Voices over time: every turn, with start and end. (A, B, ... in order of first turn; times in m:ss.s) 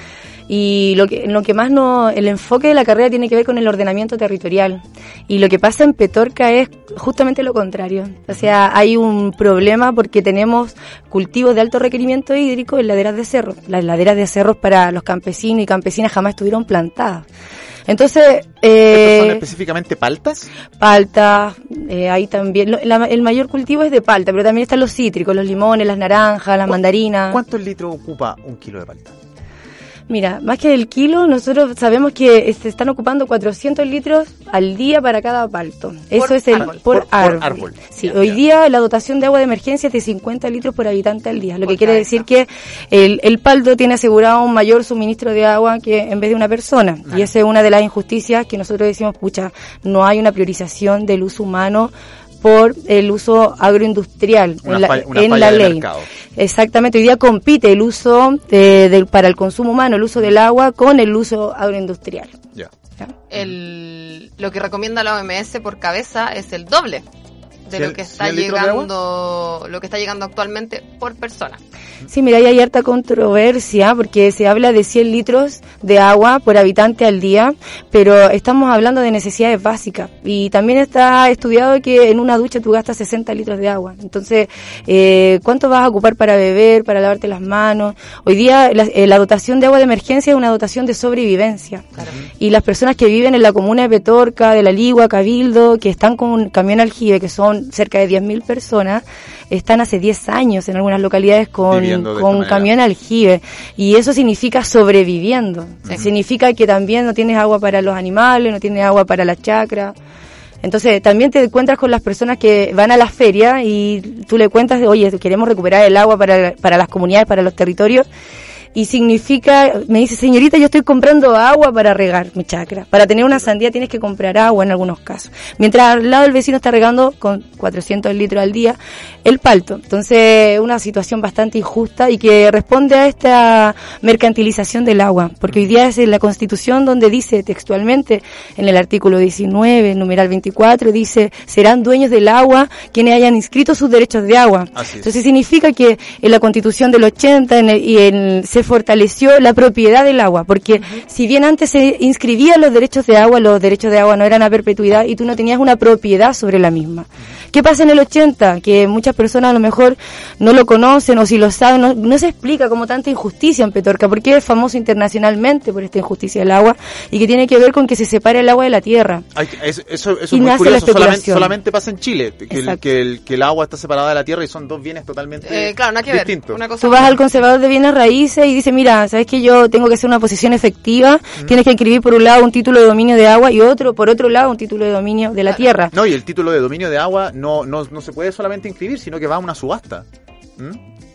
0:00.5-0:17.3 A
0:17.9-0:19.4 A
0:18.9-0:20.5 B
0:20.8-0:27.4 A
0:27.3-0:29.2 B
0:30.1-1:02.4 A
0:36.2-0:36.8 C
0:36.8-0:38.4 B
0:41.6-0:42.2 C
0:54.6-0:56.1 B
1:03.3-1:07.0 C
1:07.7-1:11.6 C
1:07.7-1:08.9 B
1:12.1-1:31.9 A
1:32.4-1:50.0 A
1:41.7-1:42.7 B
1:50.6-1:58.1 A
1:58.8-2:49.3 A
2:24.8-2:25.1 B
2:49.4-2:56.6 B
2:50.3-2:51.5 A
2:52.5-2:52.8 A
2:55.4-2:57.3 C
2:56.8-3:05.9 A
3:05.9-3:10.1 B